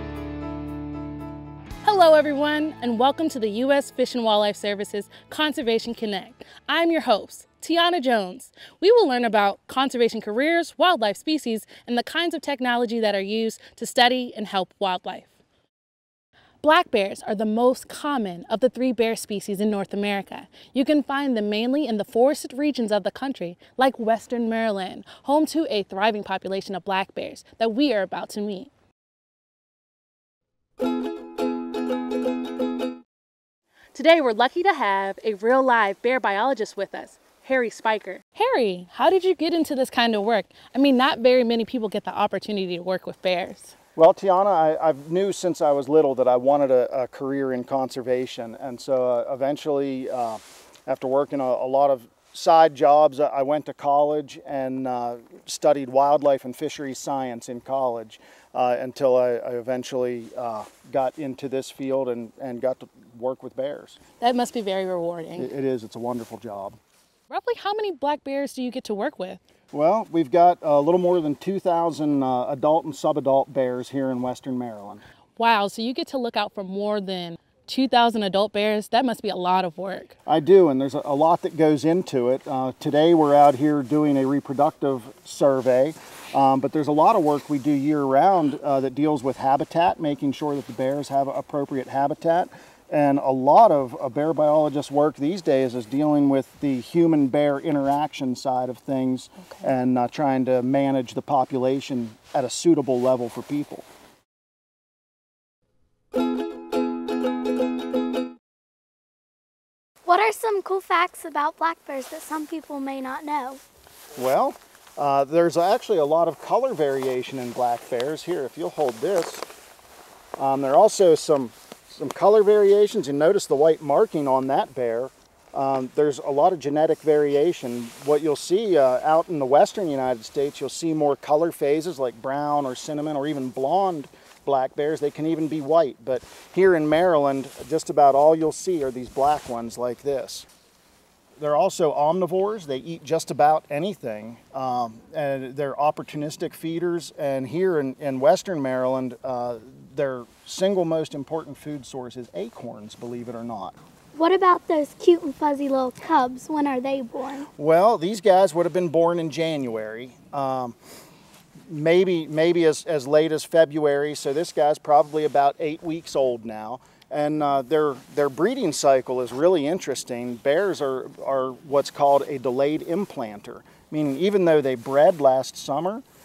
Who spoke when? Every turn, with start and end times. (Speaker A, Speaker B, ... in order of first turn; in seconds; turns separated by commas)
Speaker A: 1.8-15.3, Speaker A: 16.6-28.7, Speaker A: 33.9-43.7, Speaker B: 44.0-64.0, Speaker A: 64.2-65.5, Speaker B: 65.3-66.8, Speaker A: 67.3-69.4, Speaker B: 69.7-75.0, Speaker A: 75.4-80.1, Speaker B: 80.2-103.9, Speaker C: 110.0-113.6, Speaker B: 114.1-119.5, Speaker B: 120.4-140.5, Speaker B: 141.4-153.7, Speaker C: 154.1-157.5, Speaker B: 157.6-160.8, Speaker B: 161.7-176.0